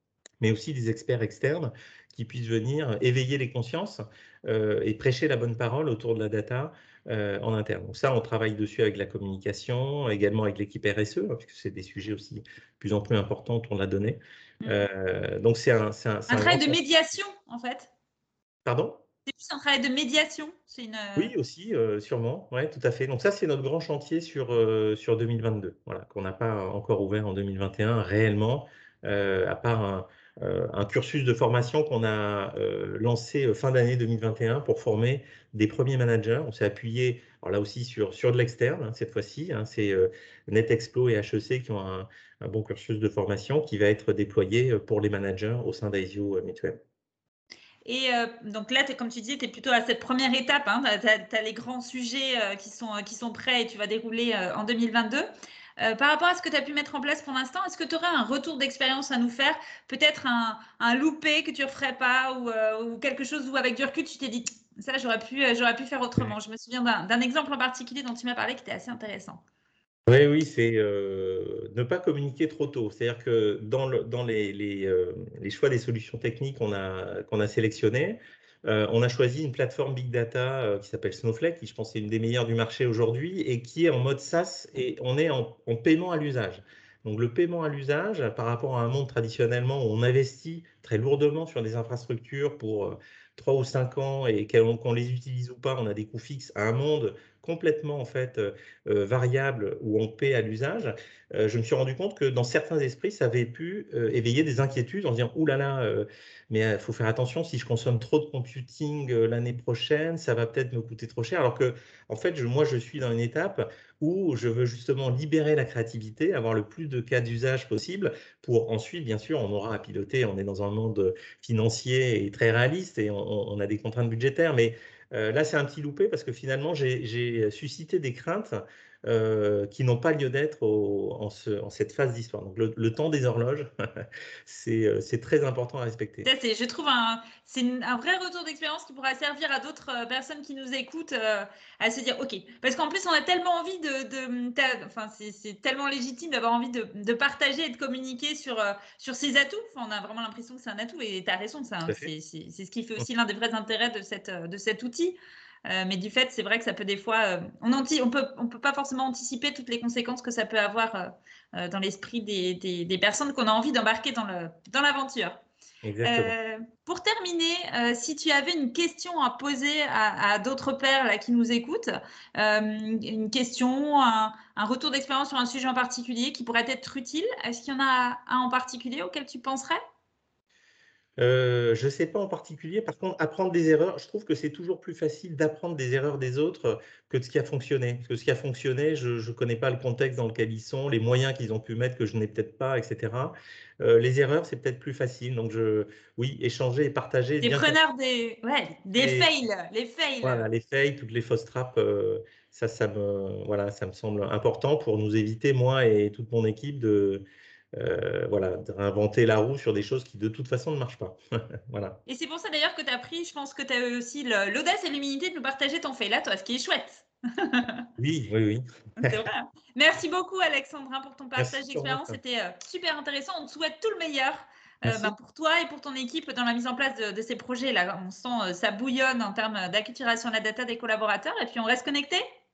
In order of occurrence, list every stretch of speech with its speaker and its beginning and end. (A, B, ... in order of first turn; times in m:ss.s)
0:00.4-0:16.8 A
0:14.6-0:14.9 B
0:16.3-0:17.9 B
0:18.6-0:19.0 A
0:19.3-0:21.3 B
0:21.2-0:46.8 A
0:47.9-0:55.3 B
0:55.8-1:09.4 B
1:10.1-2:16.3 A
2:16.2-2:45.4 B
2:31.9-2:32.1 A
2:45.8-2:46.4 A
2:46.0-2:59.8 B
3:01.2-3:17.8 A
3:17.4-3:20.5 B
3:19.0-3:19.3 A
3:20.2-3:27.2 A
3:27.8-3:31.2 A
3:31.7-3:32.0 A
3:32.1-3:37.9 B
3:38.0-3:39.3 A
3:39.0-3:52.2 B
3:41.4-3:42.2 A
3:44.8-3:45.1 A